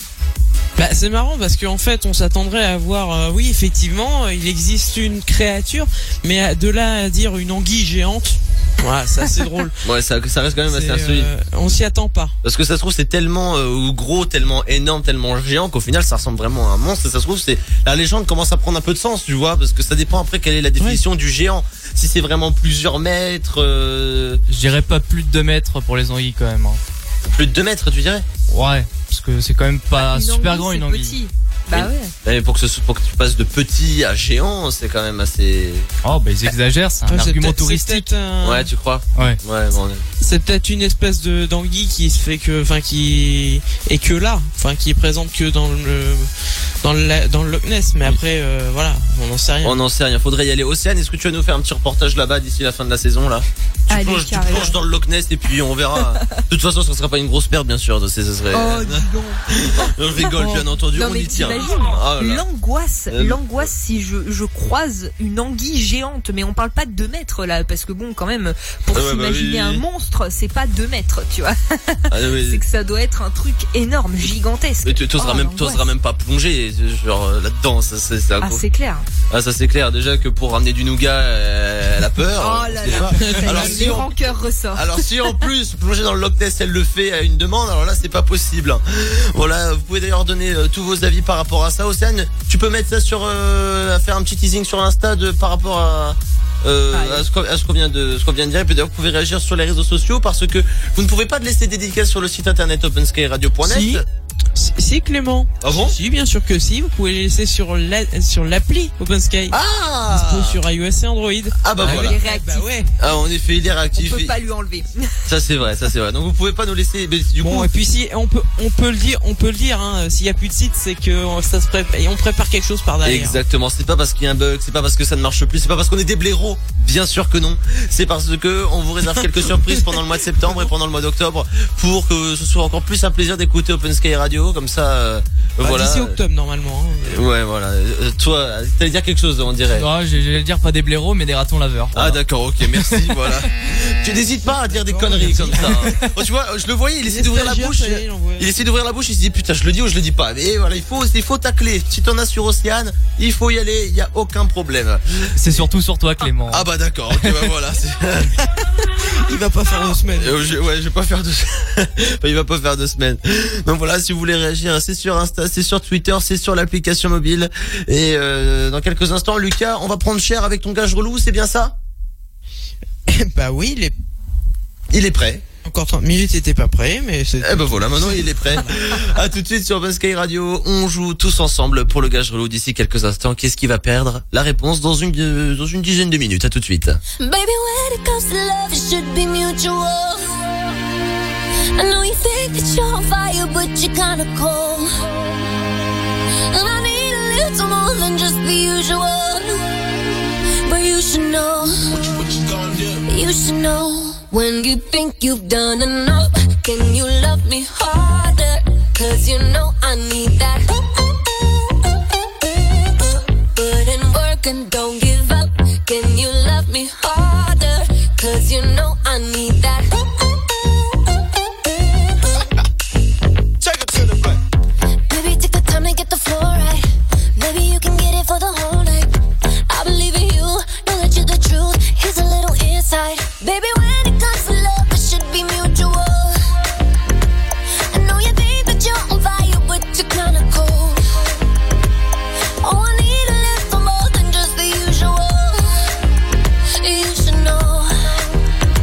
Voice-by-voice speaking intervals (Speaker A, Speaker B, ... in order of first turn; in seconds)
Speaker A: 0.8-9.8, 10.6-12.3, 37.1-38.7, 40.2-46.3, 46.8-49.8, 83.2-84.0, 103.6-104.0, 104.5-109.6, 110.1-112.9, 117.4-123.4, 135.6-137.2, 144.7-146.1, 147.1-148.5, 159.1-160.4, 173.1-173.9, 175.6-178.7
Speaker B: 9.8-11.3, 12.4-24.4, 27.2-28.2, 31.7-35.9, 38.4-40.0, 49.6-62.4, 63.1-63.7, 68.9-69.8, 72.1-72.6, 74.8-78.6, 79.3-84.1, 84.7-104.0, 105.6-106.0, 109.5-110.6, 111.6-112.2, 113.0-114.3, 115.2-117.7, 123.0-136.2, 137.1-139.9, 141.9-155.7, 156.5-158.3, 160.2-171.8, 174.9-175.4, 177.4-187.0
Speaker C: 24.5-26.8, 28.5-31.1, 36.0-38.1, 139.7-142.2, 142.7-143.3, 155.3-157.5
Speaker D: 29.9-32.1, 53.9-54.8, 56.0-56.4, 58.5-75.8, 78.4-79.0, 82.4-85.4, 96.9-97.2, 111.8-112.7, 113.9-115.2
Speaker E: 187.2-190.5, 191.7-194.9, 196.5-199.7, 200.6-202.1, 203.1-210.7, 213.5-220.0, 225.1-229.1, 229.7-236.4, 237.9-241.0, 242.6-245.8, 246.8-248.3